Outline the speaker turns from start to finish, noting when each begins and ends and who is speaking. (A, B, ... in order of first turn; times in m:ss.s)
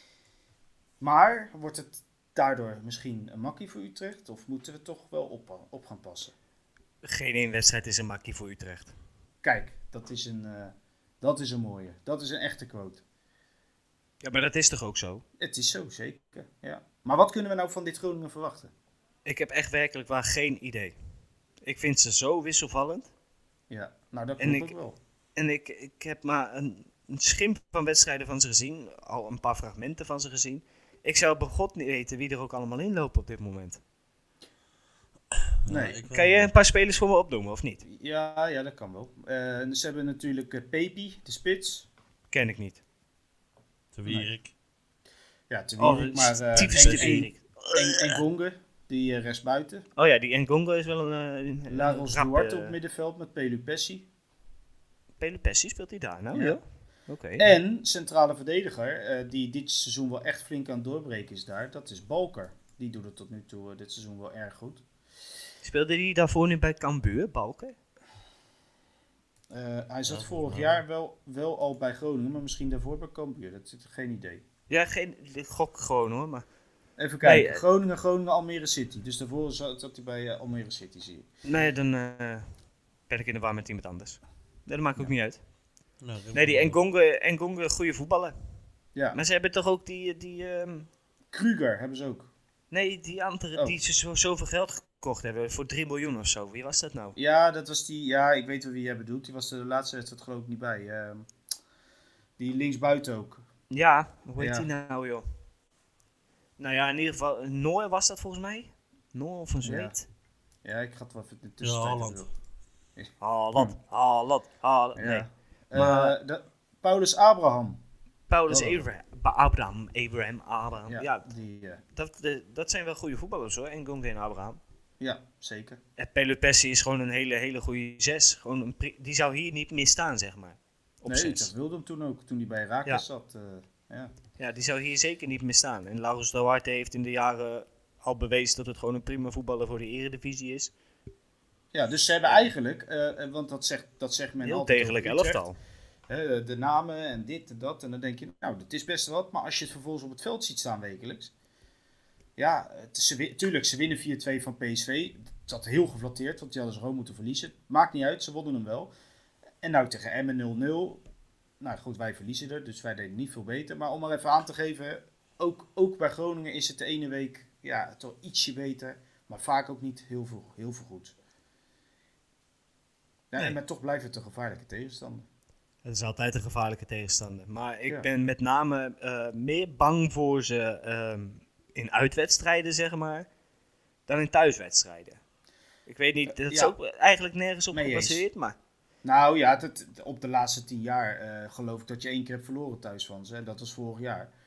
0:01.0-0:06.3 A
0:07.0-0:08.9 B
0:09.4-0:13.0 A
0:14.2-0:15.2 B
0:15.4-0:18.7 A
0:19.2-0:20.9 B
0:21.6-0:23.1 B
0:23.7-0:25.0 A
0:24.4-0:24.7 B
0:25.4-0:33.8 B
0:35.3-0:36.5 C
0:35.7-0:36.0 A
0:36.1-0:37.8 B
0:37.8-0:41.9 A
0:42.3-0:42.8 B
0:43.9-0:44.5 C
0:45.5-0:49.8 A
0:45.8-0:48.1 B
0:46.6-0:47.2 C
0:50.0-0:52.8 B
0:51.7-0:54.1 A
0:55.2-0:57.5 B
0:56.3-0:56.6 A
0:57.4-1:04.8 A
1:05.6-1:07.8 B
1:09.5-1:14.4 A
1:10.1-1:10.8 C
1:14.7-1:16.4 B
1:17.0-1:21.3 A
1:17.2-1:17.6 B
1:21.4-1:22.4 B
1:23.1-1:25.4 B
1:26.0-1:26.7 C
1:26.3-1:28.3 B
1:29.1-1:30.9 B
1:31.3-1:32.3 A
1:32.7-1:37.1 B
1:37.2-1:41.2 A
1:42.4-1:43.4 A
1:43.7-1:45.2 B
1:44.4-1:44.7 A
1:46.6-1:50.0 B
1:49.6-1:49.9 A
1:50.6-1:52.3 A
1:51.6-1:52.3 C
1:53.0-1:53.7 A
1:53.2-1:56.1 B
1:55.0-1:57.8 A
1:58.3-2:01.2 B
1:58.5-1:58.8 A
2:00.9-2:01.8 A
2:01.9-2:04.6 B
2:05.0-2:05.8 A
2:06.0-2:11.5 B
2:11.0-2:14.1 A
2:14.4-2:20.7 B
2:21.7-2:25.4 A
2:24.4-2:25.6 B
2:26.1-2:31.3 A
2:32.4-2:38.9 A
2:39.6-2:41.0 A
2:41.6-2:51.1 A
2:53.3-2:55.2 A
2:55.8-3:03.2 B
3:04.1-3:05.2 B
3:05.9-3:08.6 B
3:06.3-3:06.8 A
3:07.7-3:08.2 A
3:09.0-3:14.3 A